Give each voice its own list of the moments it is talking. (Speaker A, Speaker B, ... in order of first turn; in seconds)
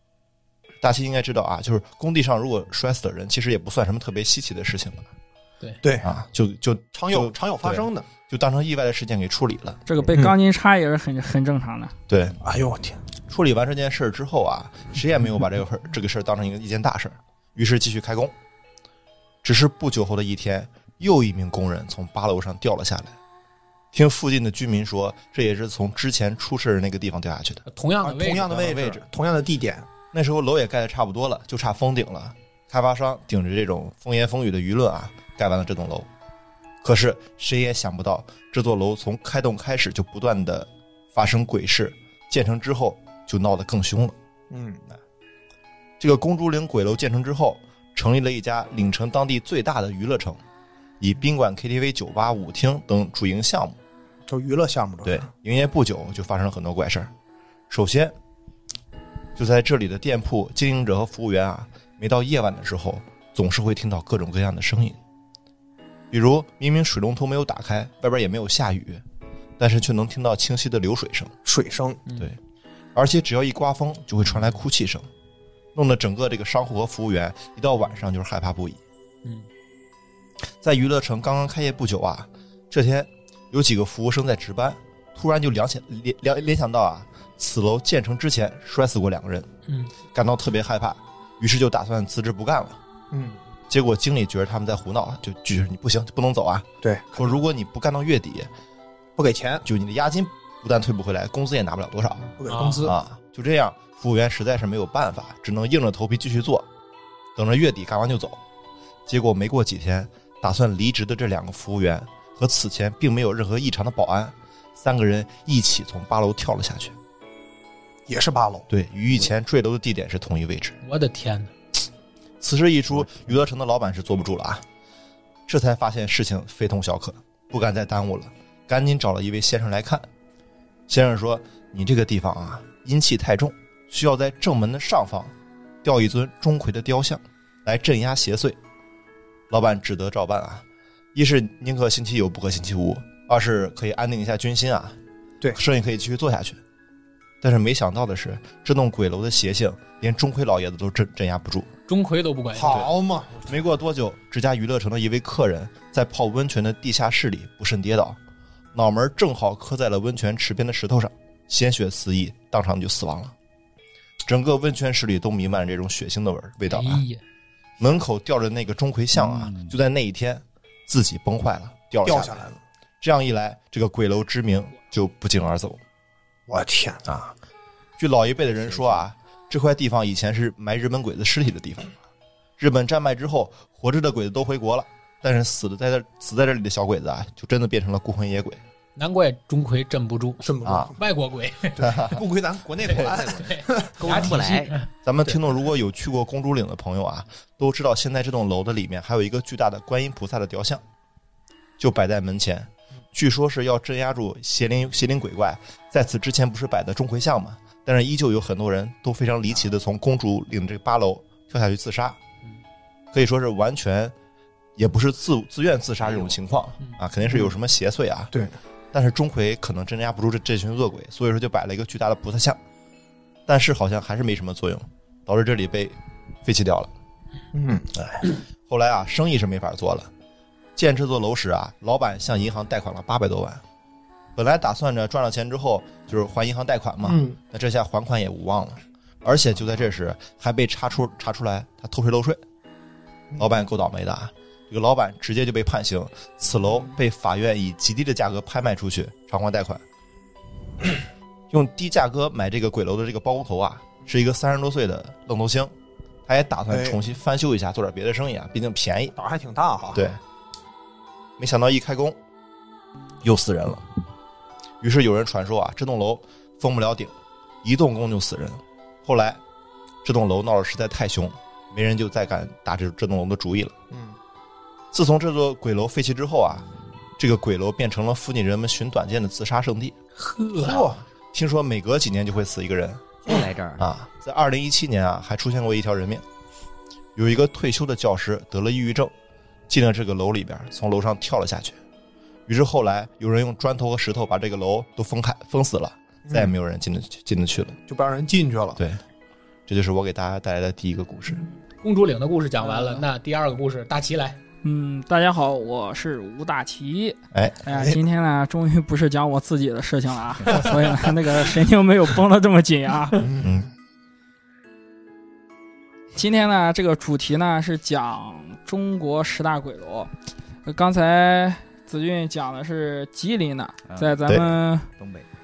Speaker A: 0.8-5.1, 6.0-9.8, 12.1-12.4, 13.3-18.3, 19.4-23.1, 23.9-27.6, 28.5-29.0, 30.1-36.1, 36.8-44.1, 46.0-50.4, 51.0-53.8, 55.0-57.1, 57.7-58.1, 59.4-65.0, 66.1-69.0, 69.6-71.3, 73.0-75.1, 75.8-78.8, 80.6-89.5, 90.1-92.8, 93.7-98.5, 99.6-106.7, 107.4-108.4, 109.1-117.0, 118.7-120.8, 122.4-124.6, 125.5-130.1, 130.9-135.3, 135.8-138.6, 139.5-145.0, 145.5-146.6, 147.4-151.7, 152.7-158.2, 158.7-163.3, 164.2-167.0, 167.8-172.4, 173.0-175.8, 177.0-177.3, 178.0-182.0, 182.6-188.6, 190.6-190.9, 191.8-192.2, 195.0-200.8, 201.8-212.2, 213.1-214.1, 214.8-218.3, 218.9-222.6, 223.5-226.9, 228.0-230.1, 230.8-233.6, 234.4-242.4, 243.4-249.8, 251.5-255.7, 256.3-259.1, 261.4-262.2, 263.2-263.9, 264.8-267.1, 267.6-269.4, 270.0-273.8, 274.9-279.9, 280.7-283.2, 283.8-286.2, 287.1-289.1, 289.7-291.8, 292.5-297.8, 299.7-301.4, 307.3-307.6, 313.4-313.7
Speaker B: 5.8-6.1, 6.9-8.1, 12.4-13.0, 28.0-29.9, 44.5-44.8, 54.3-55.3, 71.5-72.0, 93.1-93.4, 96.8-97.3, 99.2-99.6, 102.3-102.9, 118.1-118.7, 152.5-153.4, 172.0-172.6, 176.5-177.0, 190.4-190.9, 191.8-194.2, 227.5-227.9, 237.0-237.4, 256.7-257.0, 259.2-260.1, 280.6-281.0, 296.3-296.5, 297.9-298.8, 313.2-313.5
Speaker C: 9.9-11.9, 302.6-303.0, 304.6-313.2, 316.1-320.1, 320.6-324.9
Speaker D: 27.7-28.5, 89.7-89.9, 102.5-102.9, 120.8-121.5, 151.9-152.8, 166.7-167.2, 189.0-191.9, 193.0-194.9, 280.2-280.9, 301.8-304.4
Speaker E: 169.1-169.7, 194.0-194.7, 216.0-216.3, 283.2-283.8, 323.9-325.3